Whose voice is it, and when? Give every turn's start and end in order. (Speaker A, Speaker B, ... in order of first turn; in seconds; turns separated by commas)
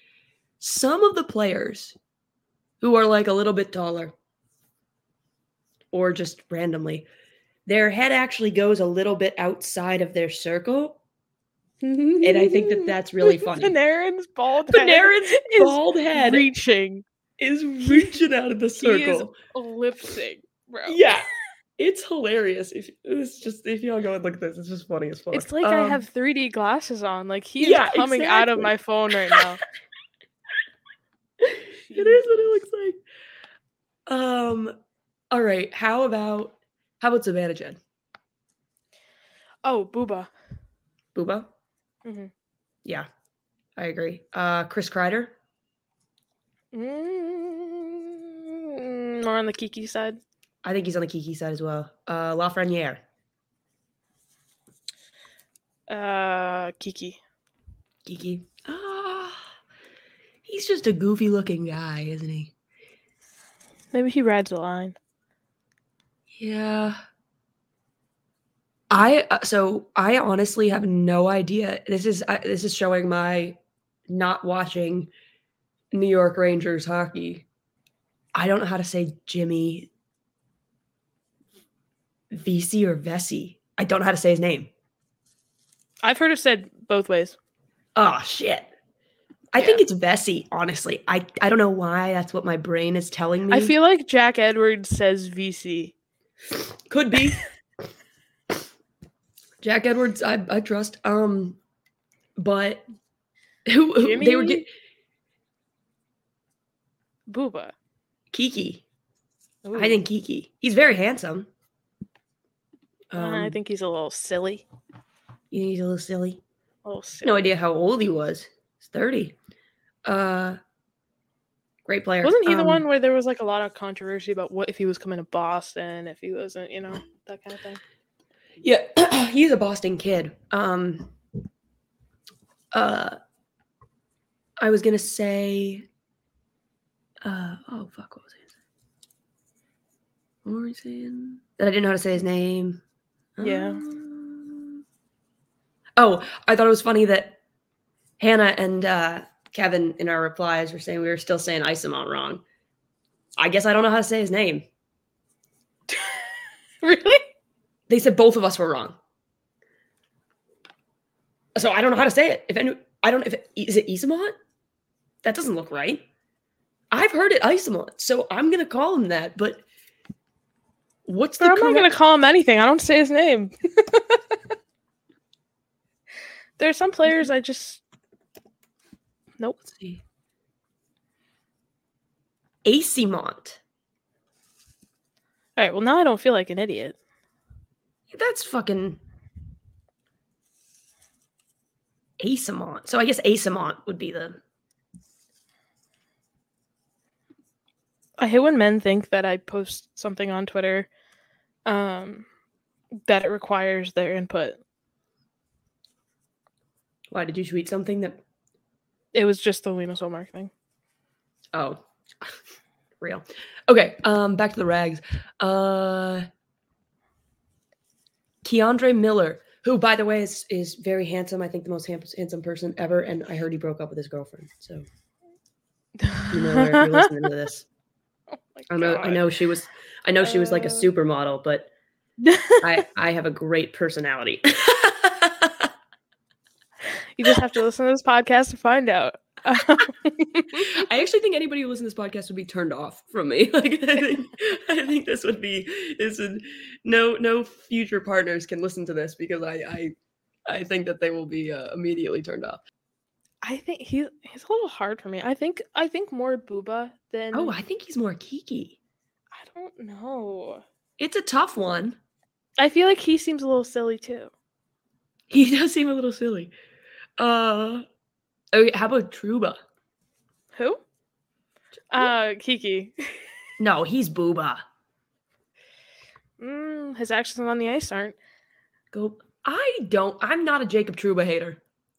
Speaker A: 0.6-2.0, Speaker A: 2.8-4.1, Speaker A: 5.9-7.0, Speaker A: 7.7-11.0, Speaker B: 11.8-17.0, Speaker A: 12.2-13.8, Speaker A: 14.7-16.4, Speaker A: 17.4-19.3, Speaker B: 17.8-18.2, Speaker B: 18.8-21.0, Speaker A: 20.9-26.0, Speaker B: 25.3-29.6, Speaker A: 27.6-28.7, Speaker A: 31.4-33.0, Speaker B: 31.7-32.2, Speaker A: 34.1-34.7, Speaker A: 35.3-37.8, Speaker B: 39.6-40.3, Speaker A: 41.1-41.5, Speaker B: 42.0-42.3, Speaker A: 43.8-45.3, Speaker B: 46.7-50.2, Speaker A: 50.6-53.0, Speaker B: 55.9-57.2, Speaker A: 58.0-59.5, Speaker A: 60.4-62.5, Speaker B: 63.9-65.0, Speaker A: 66.3-67.0, Speaker A: 68.9-73.6, Speaker A: 74.1-75.1, Speaker A: 75.9-77.4, Speaker A: 78.3-79.9, Speaker A: 82.3-84.7, Speaker B: 86.0-87.4, Speaker A: 88.0-88.7, Speaker A: 89.5-93.7, Speaker B: 89.6-89.8, Speaker B: 93.5-95.9, Speaker A: 96.9-97.4, Speaker A: 99.6-101.6, Speaker A: 102.4-102.8, Speaker A: 103.7-104.6, Speaker B: 104.0-104.6, Speaker B: 107.3-107.7, Speaker A: 108.3-108.8, Speaker B: 109.6-110.0, Speaker A: 109.7-111.5, Speaker A: 113.1-113.6, Speaker B: 113.2-114.6, Speaker A: 115.5-116.4, Speaker B: 116.8-117.4, Speaker A: 117.2-119.3, Speaker A: 120.0-120.6, Speaker A: 121.8-122.8, Speaker B: 122.2-127.8, Speaker A: 128.6-131.1, Speaker A: 132.7-133.2, Speaker A: 134.6-135.8, Speaker A: 137.2-138.4, Speaker A: 140.4-142.8, Speaker A: 143.4-144.8, Speaker B: 143.4-143.8, Speaker A: 146.0-147.4, Speaker A: 148.2-152.4, Speaker A: 153.4-154.7, Speaker B: 155.9-156.3, Speaker B: 156.8-157.2, Speaker A: 157.9-159.0, Speaker A: 161.6-164.3, Speaker A: 165.2-166.0, Speaker A: 166.9-169.6, Speaker A: 171.1-171.9, Speaker B: 171.4-174.4, Speaker B: 176.6-177.8, Speaker A: 179.7-180.0, Speaker A: 182.6-183.6, Speaker B: 185.6-187.0, Speaker A: 188.1-189.0, Speaker A: 192.2-194.4, Speaker B: 198.2-200.9, Speaker B: 201.7-202.3, Speaker B: 203.1-204.6, Speaker A: 207.1-208.2, Speaker B: 209.1-210.5, Speaker A: 211.5-212.4, Speaker A: 213.0-216.2, Speaker A: 218.4-224.8, Speaker B: 226.0-227.3, Speaker A: 226.3-227.7, Speaker B: 228.5-229.2, Speaker A: 228.7-231.7, Speaker B: 230.2-230.9, Speaker B: 232.2-232.8, Speaker A: 232.6-235.7, Speaker B: 237.2-240.8, Speaker A: 240.5-249.9, Speaker A: 250.5-252.6, Speaker B: 253.4-257.5, Speaker A: 257.3-258.8, Speaker B: 259.3-260.6, Speaker A: 261.0-262.0, Speaker B: 262.6-264.3, Speaker A: 265.3-266.5, Speaker A: 267.2-267.8, Speaker A: 268.5-269.6, Speaker B: 270.6-270.8, Speaker B: 271.9-273.3, Speaker A: 273.6-274.6, Speaker B: 276.4-278.1, Speaker A: 278.9-281.6